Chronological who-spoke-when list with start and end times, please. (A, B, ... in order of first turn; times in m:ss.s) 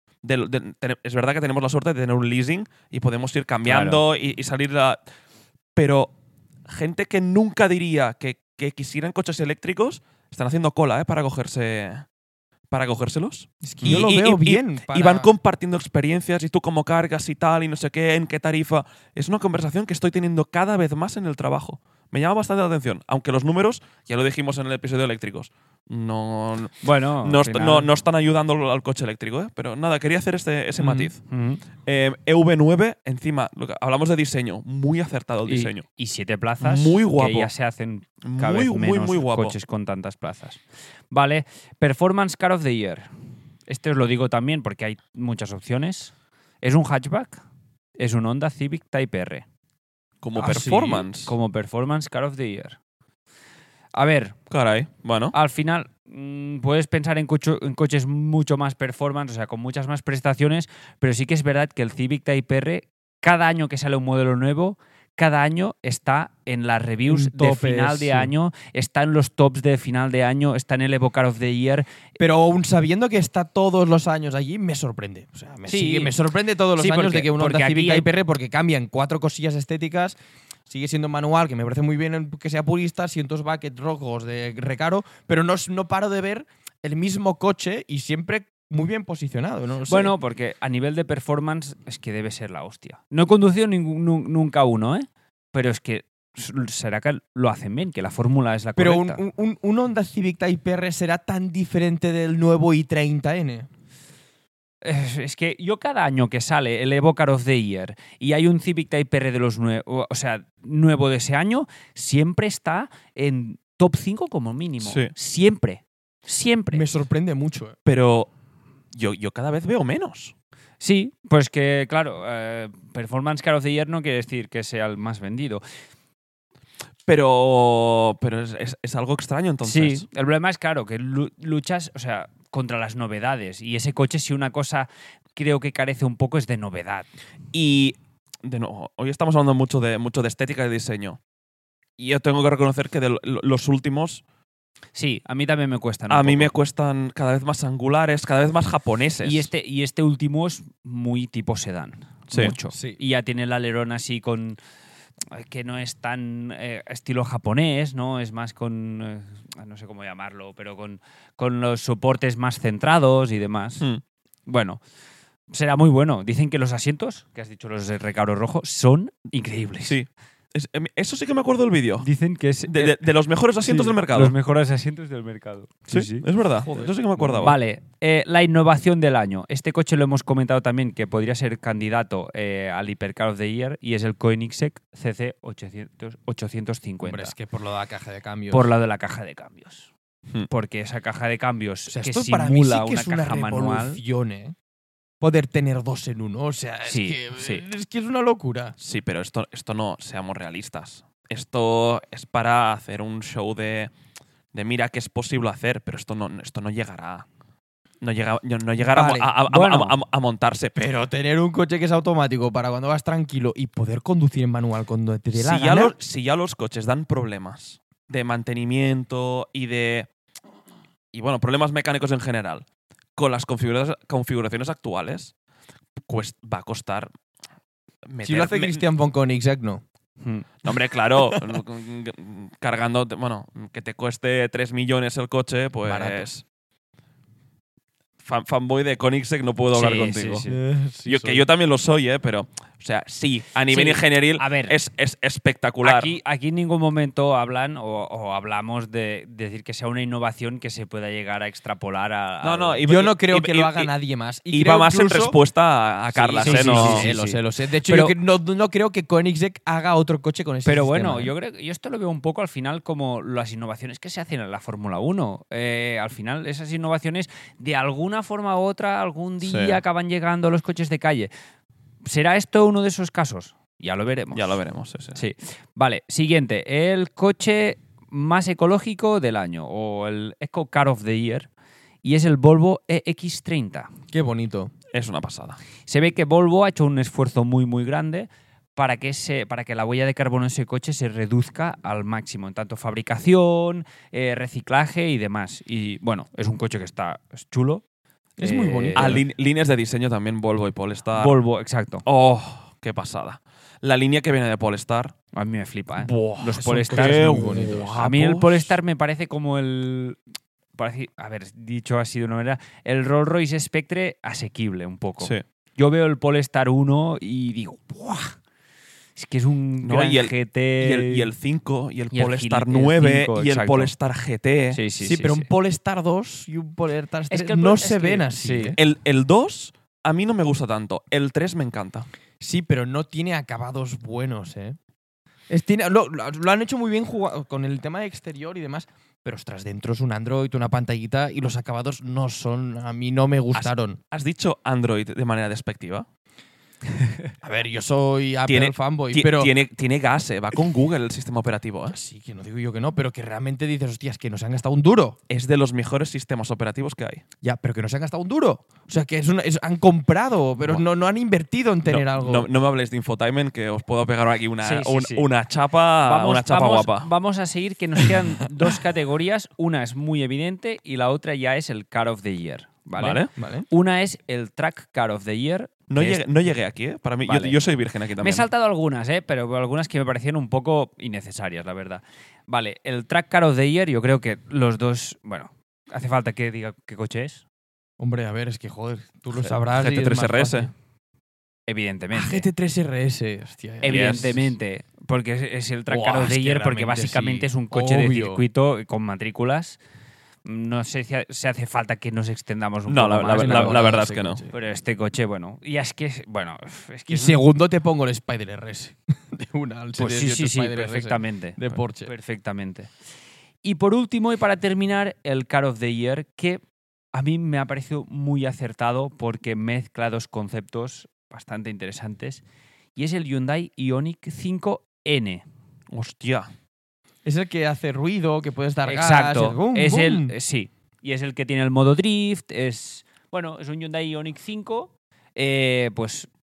0:00.2-0:05.0 A
0:03.6-0:04.0 B
0:05.8-0:06.1 A
0:06.7-0:12.1 A
0:12.7-0:31.2 A
0:13.6-0:15.3 C
0:26.8-0:27.9 B
0:30.8-0:31.6 B
0:31.8-0:35.8 A
0:35.5-0:43.1 B
0:36.6-0:37.5 A
0:38.2-0:39.6 A
0:43.7-0:47.4 B
0:48.0-0:49.4 B
0:50.2-0:51.4 A
0:50.4-0:51.0 C
0:50.5-0:52.8 B
0:53.9-0:54.4 B
0:54.5-0:55.4 A
0:55.3-1:11.9 B
1:07.1-1:08.3 C
1:12.2-1:30.1 C
1:15.7-1:16.2 B
1:16.8-1:18.1 B
1:29.9-1:39.2 B
1:38.8-1:43.7 C
1:44.8-1:56.9 B
1:54.8-1:55.1 A
1:56.7-1:57.8 C
1:57.8-1:58.3 A
1:58.9-2:00.3 A
2:00.8-2:05.6 B
2:07.1-2:10.1 A
2:09.6-2:17.1 B
2:17.5-2:21.2 A
2:22.0-2:24.2 A
2:25.0-2:26.5 B
2:26.1-2:29.5 A
2:29.2-2:34.6 B
2:32.3-2:32.6 A
2:32.7-2:33.0 C
2:35.3-2:43.8 B
2:44.5-2:44.8 B
2:45.5-2:50.0 B
2:49.8-2:52.1 A
2:52.0-2:56.3 B
2:52.7-2:54.4 A
2:55.9-2:57.6 A
2:57.3-3:07.3 B
3:07.0-3:08.7 C
3:08.5-3:09.9 B
3:10.5-3:14.0 B
3:11.9-3:14.6 C
3:15.2-3:18.8 C
3:16.9-3:17.6 B
3:18.8-3:23.9 A
3:24.5-3:27.3 A
3:28.0-3:30.8 A
3:28.8-3:29.3 C
3:29.5-3:30.0 B
3:30.8-3:36.0 C
3:35.3-3:40.1 A
3:41.1-3:42.6 A
3:43.2-3:45.3 A
3:46.1-3:47.1 A
3:48.1-3:48.8 A
3:48.2-3:49.8 C
3:50.2-3:50.5 B
3:50.6-3:56.4 A
3:55.8-3:56.3 C
3:58.2-4:00.5 A
3:59.7-4:00.6 B
4:00.4-4:01.5 C
4:01.1-4:06.2 A
4:03.7-4:04.8 B
4:05.8-4:12.8 B
4:12.4-4:13.9 A
4:12.8-4:15.4 C
4:14.5-4:17.1 A
4:16.1-4:21.3 C
4:16.4-4:18.2 B
4:20.6-4:31.3 B
4:29.4-4:29.8 A
4:32.0-4:34.6 B
4:34.3-4:35.2 A
4:35.2-4:41.5 B
4:42.0-4:43.9 B
4:44.1-4:44.7 C
4:44.9-4:45.6 A
4:45.9-4:57.8 B
4:58.4-4:59.2 C
4:58.4-4:59.2 B
4:59.0-5:01.4 A
5:01.1-5:02.0 B
5:02.0-5:05.1 A
5:05.3-5:10.2 B
5:06.0-5:08.8 A
5:06.5-5:07.9 C
5:10.8-5:18.4 B
5:19.2-5:21.3 B
5:19.8-5:24.8 A
5:22.1-5:23.9 B
5:24.7-5:25.5 B
5:25.0-5:28.8 C
5:27.3-5:28.8 B
5:28.8-5:32.1 A
5:32.4-5:34.8 C
5:35.5-5:44.0 C
5:43.6-5:46.1 A
5:47.4-5:49.5 C
5:48.5-5:52.0 A
5:51.9-5:55.2 C
5:55.3-5:57.2 A
5:57.4-6:02.5 C
6:01.8-6:07.1 A
6:04.6-6:05.3 B
6:06.0-6:16.2 B
6:13.0-6:13.3 A
6:13.4-6:13.7 C
6:15.9-6:18.5 A
6:17.3-6:17.6 B
6:18.2-6:27.4 B
6:28.0-6:30.7 C
6:29.7-6:30.7 A
6:31.7-6:32.5 B
6:32.1-6:34.5 C
6:33.8-6:39.8 B
6:33.9-6:34.4 A
6:35.9-6:38.4 C
6:40.4-6:47.4 B
6:42.9-6:44.4 A
6:43.3-6:44.6 C
6:47.1-6:52.1 C
6:50.0-6:52.9 B
6:53.6-6:56.6 B
6:57.1-7:02.4 B
7:03.0-7:05.4 B
7:05.9-7:06.5 A
7:07.2-7:10.3 C
7:08.8-7:16.3 B